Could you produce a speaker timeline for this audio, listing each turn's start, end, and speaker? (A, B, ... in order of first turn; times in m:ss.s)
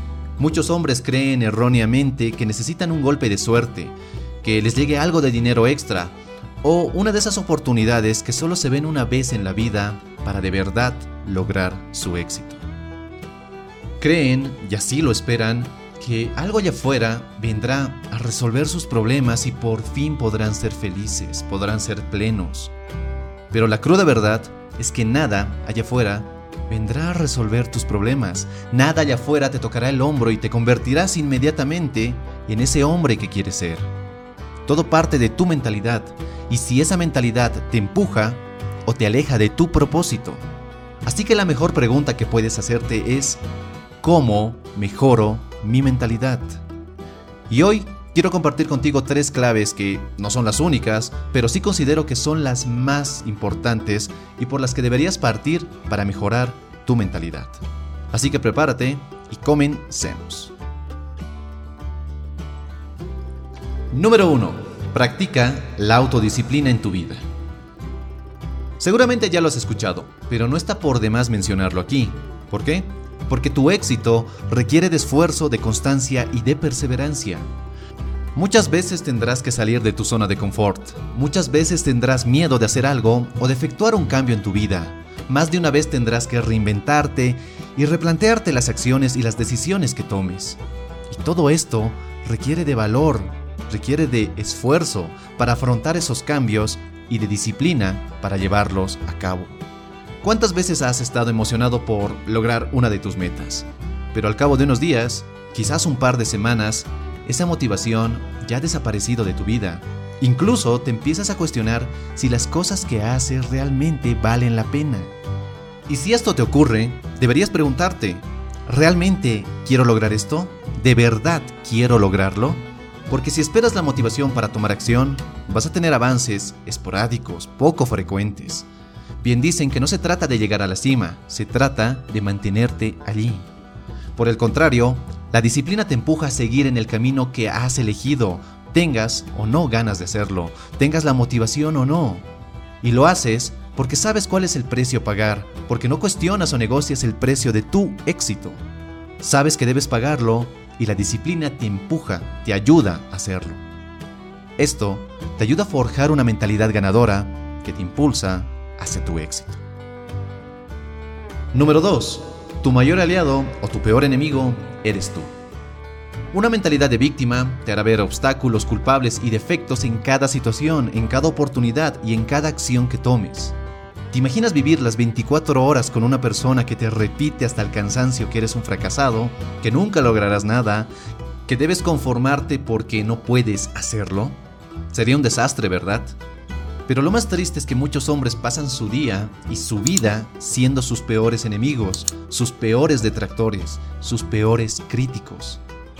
0:00.4-0:12.6 A
0:14.0-0:22.7 A
0:23.5-0:33.9 A
0:34.6-0:40.4 A
0:41.0-0:43.4 A
0:44.0-0:46.6 A
0:47.5-1:00.5 A
1:03.9-1:07.2 A
1:08.8-1:17.5 A
1:18.3-1:39.6 A
1:40.2-1:55.1 A
1:55.9-2:08.7 A
2:09.2-2:13.5 A
2:14.2-2:22.2 A
2:22.8-2:28.6 A
2:29.2-2:33.6 A
2:34.6-2:39.6 A
2:41.5-2:45.3 A
2:46.3-2:53.6 A
2:54.1-3:00.9 A
3:01.4-3:04.4 A
3:04.9-3:06.2 A
3:06.8-3:15.6 A